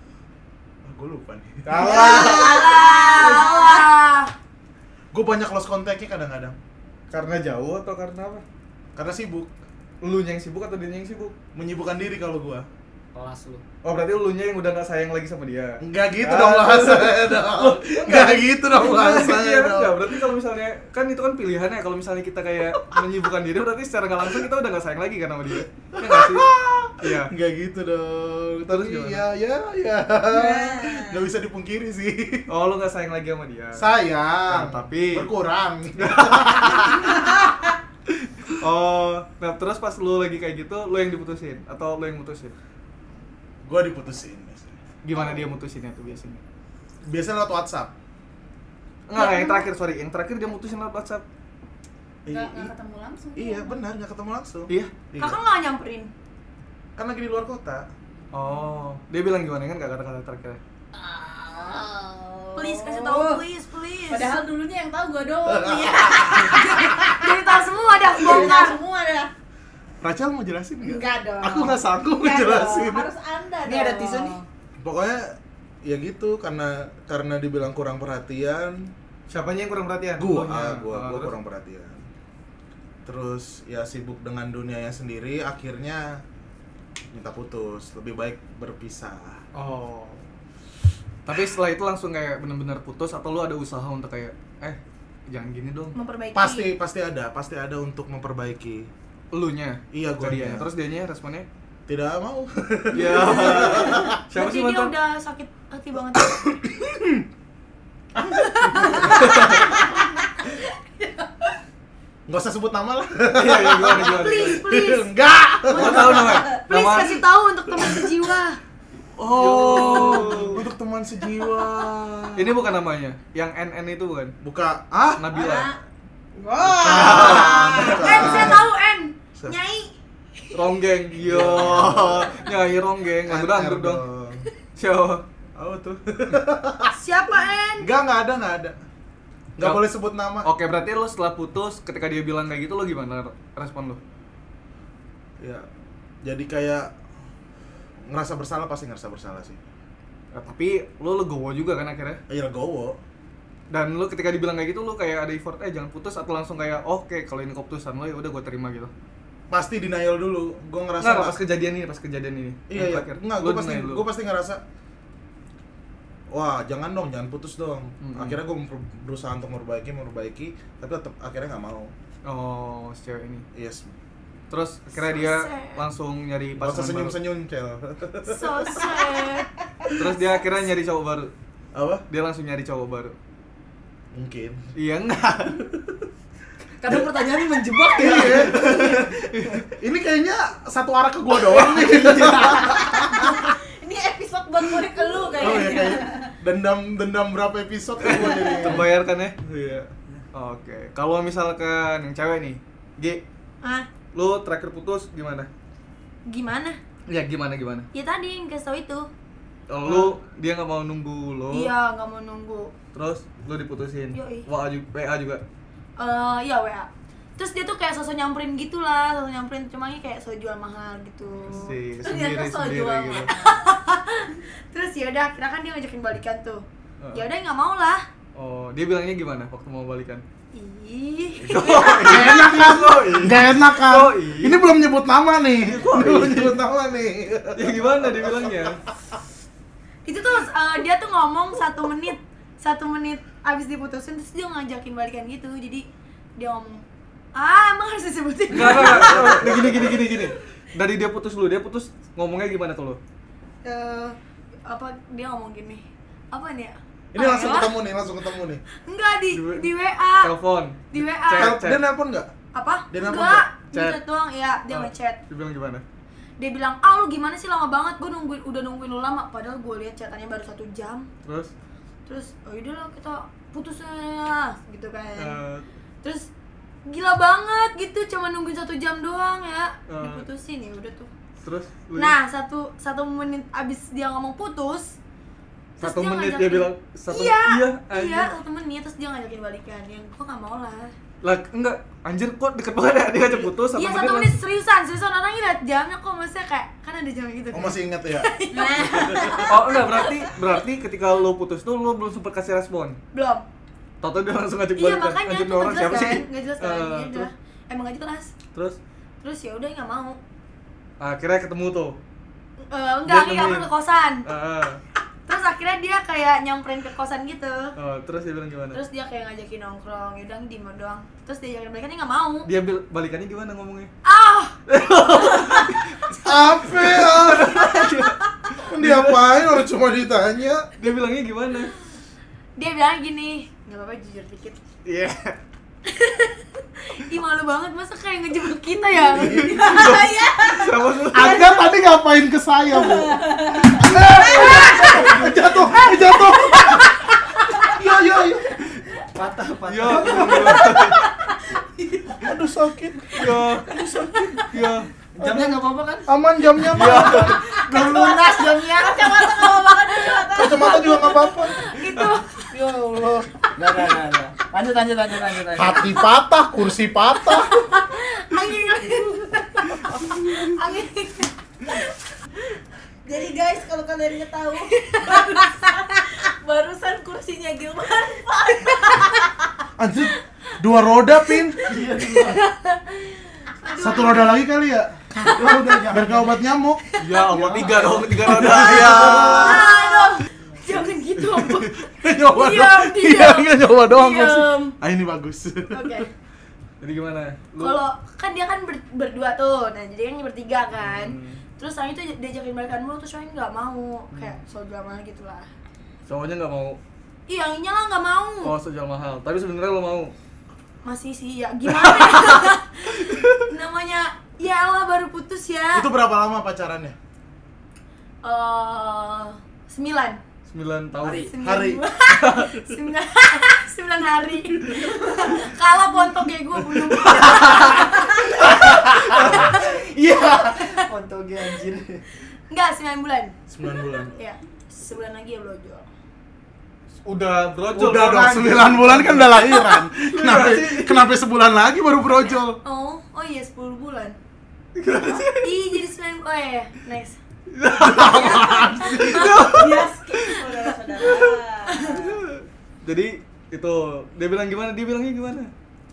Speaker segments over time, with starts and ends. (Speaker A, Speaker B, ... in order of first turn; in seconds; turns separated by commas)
Speaker A: 0.8-2.8, Speaker B: 1.7-2.1, Speaker C: 1.7-4.3, Speaker D: 2.1-4.0, Speaker A: 5.1-6.6, Speaker B: 7.1-8.4, Speaker A: 8.9-9.5, Speaker B: 10.0-11.3, Speaker A: 11.6-12.7, Speaker E: 13.1-13.6, Speaker B: 13.8-27.3, Speaker A: 15.8-20.2, Speaker A: 26.0-32.5, Speaker B: 28.7-29.2, Speaker D: 30.3-31.3, Speaker B: 32.5-33.9, Speaker A: 33.8-37.2, Speaker B: 34.5-35.3, Speaker B: 36.0-37.1, Speaker B: 38.1-42.5, Speaker A: 43.6-45.5, Speaker B: 45.0-46.4, Speaker A: 47.0-47.9, Speaker B: 49.1-51.2, Speaker C: 49.1-49.7, Speaker A: 52.3-52.7, Speaker D: 52.3-53.8, Speaker A: 53.4-55.4, Speaker C: 55.2-56.1, Speaker A: 57.0-57.9, Speaker B: 58.3-60.6, Speaker D: 60.9-63.5, Speaker C: 62.6-64.4, Speaker D: 64.1-67.4, Speaker A: 65.5-67.0, Speaker C: 66.9-68.8, Speaker D: 68.1-69.3, Speaker A: 70.0-73.1, Speaker D: 70.8-74.5, Speaker E: 73.6-74.4, Speaker A: 74.8-78.9, Speaker B: 79.3-81.3, Speaker A: 80.2-82.1, Speaker A: 83.0-86.2, Speaker A: 87.1-89.4, Speaker B: 89.5-90.3, Speaker B: 91.3-94.8, Speaker B: 95.3-96.0, Speaker C: 95.9-96.7, Speaker A: 96.3-98.9, Speaker B: 99.3-101.5, Speaker A: 99.9-100.7, Speaker A: 101.9-104.2, Speaker B: 102.9-105.0, Speaker C: 103.6-106.4, Speaker A: 106.2-107.2, Speaker C: 108.7-109.4, Speaker A: 108.8-109.1, Speaker D: 109.0-111.5, Speaker A: 112.3-116.5, Speaker B: 113.3-114.6, Speaker C: 114.0-115.1, Speaker B: 115.7-117.2, Speaker C: 116.1-118.6, Speaker A: 119.2-122.6, Speaker B: 119.3-120.6, Speaker D: 119.7-120.5, Speaker B: 122.4-124.3, Speaker A: 124.4-125.3, Speaker B: 125.2-125.7, Speaker D: 125.3-125.8, Speaker D: 126.4-128.3, Speaker A: 126.7-128.7, Speaker B: 126.8-128.5, Speaker C: 127.0-130.6, Speaker B: 130.5-134.0, Speaker A: 131.2-132.4, Speaker A: 133.2-134.4, Speaker B: 134.8-135.2, Speaker A: 135.6-136.9, Speaker C: 136.9-137.9, Speaker A: 137.8-138.8, Speaker A: 139.6-140.5, Speaker B: 139.6-139.8, Speaker B: 140.4-144.0, Speaker A: 145.4-145.7, Speaker A: 146.2-146.9, Speaker A: 148.1-149.6, Speaker B: 150.3-152.2, Speaker A: 152.3-153.0, Speaker B: 153.7-158.9, Speaker A: 159.5-161.4, Speaker B: 161.0-164.1, Speaker A: 162.7-164.6, Speaker A: 166.3-171.9, Speaker B: 168.0-168.4, Speaker B: 172.2-173.4, Speaker A: 173.5-173.9, Speaker B: 174.5-177.2, Speaker C: 174.9-175.8, Speaker A: 176.6-178.9, Speaker C: 178.2-180.1, Speaker B: 180.0-181.3, Speaker A: 181.7-182.1, Speaker B: 182.1-183.2, Speaker A: 184.1-184.7, Speaker B: 184.8-185.7, Speaker E: 186.8-189.1, Speaker A: 187.9-189.2, Speaker B: 188.3-189.7, Speaker A: 189.7-193.5, Speaker E: 191.5-192.6, Speaker B: 191.9-192.4, Speaker D: 192.7-196.3, Speaker A: 195.3-198.9, Speaker B: 198.0-203.2, Speaker C: 203.6-203.9, Speaker B: 204.1-205.5, Speaker C: 206.3-206.8, Speaker B: 207.1-207.9, Speaker C: 207.9-209.1, Speaker B: 209.7-211.7, Speaker C: 211.5-212.7, Speaker B: 212.9-215.4, Speaker C: 214.1-214.5, Speaker C: 216.0-221.8, Speaker B: 221.5-223.3, Speaker D: 222.0-223.7, Speaker C: 223.3-228.1, Speaker B: 227.0-227.2, Speaker B: 228.3-230.2, Speaker C: 230.5-232.3, Speaker B: 231.4-234.6, Speaker A: 232.0-238.8, Speaker B: 235.6-236.6, Speaker B: 237.6-238.8, Speaker C: 240.1-249.6, Speaker B: 248.5-253.0, Speaker A: 248.7-249.9, Speaker C: 253.6-257.8, Speaker A: 257.1-258.6, Speaker C: 258.8-260.3, Speaker B: 259.3-259.7, Speaker B: 260.2-261.8, Speaker C: 260.9-261.6, Speaker A: 261.4-262.3, Speaker C: 262.5-265.2, Speaker A: 262.9-264.0, Speaker B: 264.7-265.8, Speaker C: 266.4-271.1, Speaker B: 271.2-271.5, Speaker C: 272.1-275.4, Speaker B: 275.2-275.6, Speaker C: 276.0-276.3, Speaker C: 276.9-281.1, Speaker B: 279.9-280.2, Speaker B: 281.4-282.2, Speaker C: 281.9-285.0, Speaker C: 285.8-290.9, Speaker B: 285.8-288.3, Speaker B: 291.2-294.4, Speaker C: 293.7-300.3, Speaker A: 297.5-298.3, Speaker D: 298.5-298.9, Speaker A: 298.8-299.6, Speaker B: 299.5-303.0, Speaker C: 303.1-303.5, Speaker B: 304.0-307.3, Speaker C: 304.8-308.3, Speaker C: 309.2-310.2, Speaker B: 311.0-312.0, Speaker C: 312.7-314.3, Speaker B: 313.1-313.7, Speaker B: 314.2-314.8, Speaker C: 315.3-317.8, Speaker B: 317.8-318.8, Speaker C: 318.7-322.5, Speaker B: 322.4-323.9, Speaker C: 324.0-324.6, Speaker B: 324.7-329.5, Speaker A: 326.2-327.8, Speaker A: 328.6-330.7, Speaker B: 330.8-331.7, Speaker C: 332.6-334.6, Speaker B: 334.9-335.4, Speaker C: 335.9-339.6, Speaker B: 339.1-341.5, Speaker A: 339.2-340.0, Speaker D: 339.3-341.6, Speaker A: 341.1-347.0, Speaker D: 342.7-344.6, Speaker E: 344.2-345.5, Speaker C: 344.3-345.2, Speaker B: 344.6-345.2, Speaker C: 346.0-346.9, Speaker A: 347.6-348.5, Speaker E: 349.1-350.9, Speaker B: 349.7-351.1, Speaker D: 350.8-352.2, Speaker A: 352.2-353.3, Speaker B: 353.1-353.7, Speaker E: 353.7-354.5, Speaker B: 354.5-354.9, Speaker E: 355.1-356.1, Speaker A: 355.2-358.8, Speaker E: 356.6-359.0, Speaker B: 356.7-357.4, Speaker D: 357.5-361.4, Speaker C: 359.9-362.5, Speaker A: 360.3-361.6, Speaker E: 362.5-366.0, Speaker A: 365.6-367.5, Speaker C: 367.4-371.8, Speaker D: 373.1-379.5, Speaker C: 374.6-375.7, Speaker A: 379.8-381.8, Speaker E: 381.6-382.4, Speaker C: 382.0-384.4, Speaker A: 383.8-386.8, Speaker C: 385.2-385.8, Speaker C: 386.9-387.8, Speaker B: 387.0-389.5, Speaker E: 387.3-389.3, Speaker A: 388.2-389.7, Speaker C: 388.8-394.8, Speaker D: 389.8-390.1, Speaker A: 391.3-396.1, Speaker C: 395.7-396.1, Speaker B: 396.8-397.8, Speaker C: 397.6-405.5, Speaker B: 400.8-401.4, Speaker B: 404.1-404.4, Speaker B: 406.1-406.8, Speaker C: 407.3-408.6, Speaker B: 408.4-410.1, Speaker C: 410.8-415.9, Speaker B: 411.7-412.5, Speaker B: 413.1-413.4, Speaker A: 415.7-417.0, Speaker C: 418.2-420.2, Speaker B: 420.5-421.3, Speaker E: 421.0-421.3, Speaker C: 421.3-428.6, Speaker A: 421.4-421.9, Speaker B: 422.1-422.6, Speaker B: 427.1-427.8, Speaker E: 427.4-432.0, Speaker B: 428.4-429.6, Speaker C: 429.2-430.7, Speaker C: 432.5-433.4, Speaker A: 433.5-434.2, Speaker C: 434.0-435.9, Speaker B: 437.0-441.1, Speaker A: 437.7-442.6, Speaker C: 442.6-444.2, Speaker B: 444.8-445.5, Speaker C: 445.1-447.2, Speaker B: 447.5-450.5, Speaker A: 447.8-449.4, Speaker C: 448.1-449.3, Speaker D: 449.4-452.2, Speaker B: 451.0-451.4, Speaker C: 451.7-452.1, Speaker B: 451.9-455.5